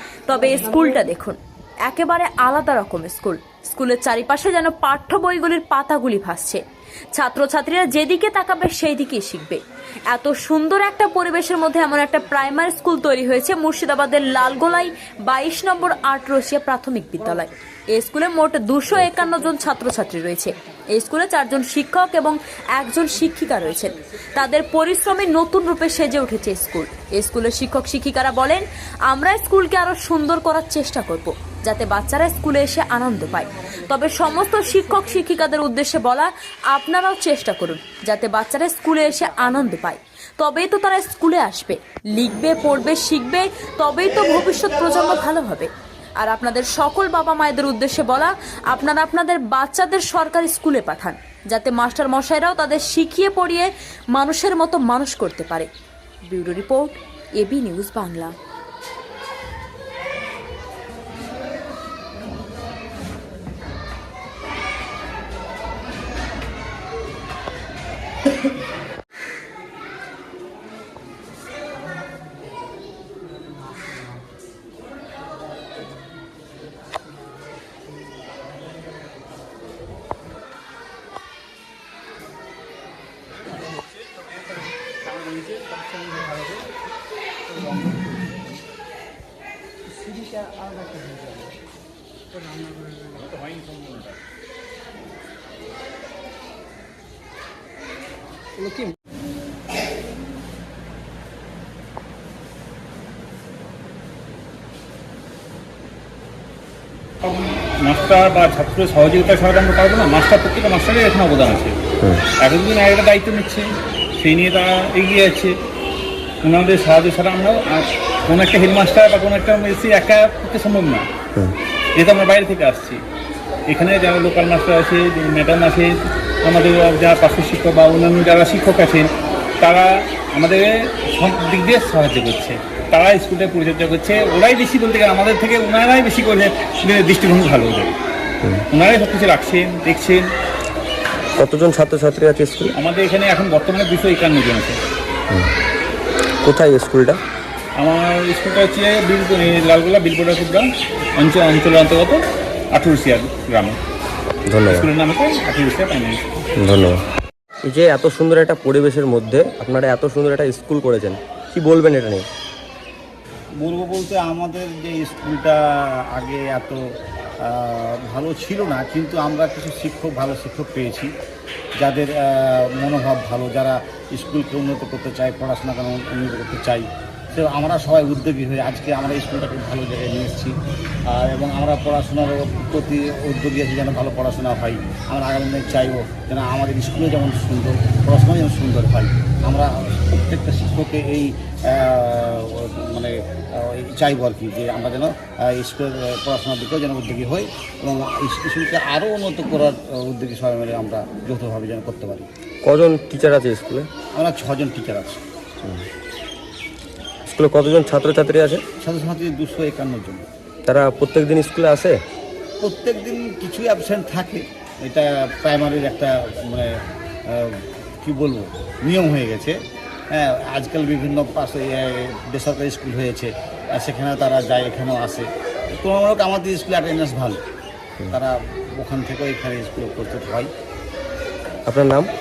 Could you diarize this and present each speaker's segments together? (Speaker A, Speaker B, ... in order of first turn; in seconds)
Speaker A: 0.3-6.6, 7.1-45.7, 46.2-55.7, 56.3-58.3
Speaker B: 85.1-86.6, 92.9-94.2, 107.2-111.8, 112.4-113.7, 114.2-115.5, 116.4-121.1, 122.0-123.0, 123.7-138.0, 138.7-140.3, 142.7-144.8, 147.8-152.2, 152.7-153.8, 154.7-156.2
Speaker C: 141.4-142.8, 146.4-147.2, 154.5-154.9, 156.6-157.0, 157.6-162.3, 202.6-203.9, 207.3-208.6, 210.7-212.0, 231.7-232.1
Speaker D: 163.6-166.8, 167.4-171.1, 171.8-180.6, 181.1-202.3, 204.1-205.2, 208.8-210.2, 212.6-216.8, 217.3-219.6, 220.1-227.4, 228.1-230.5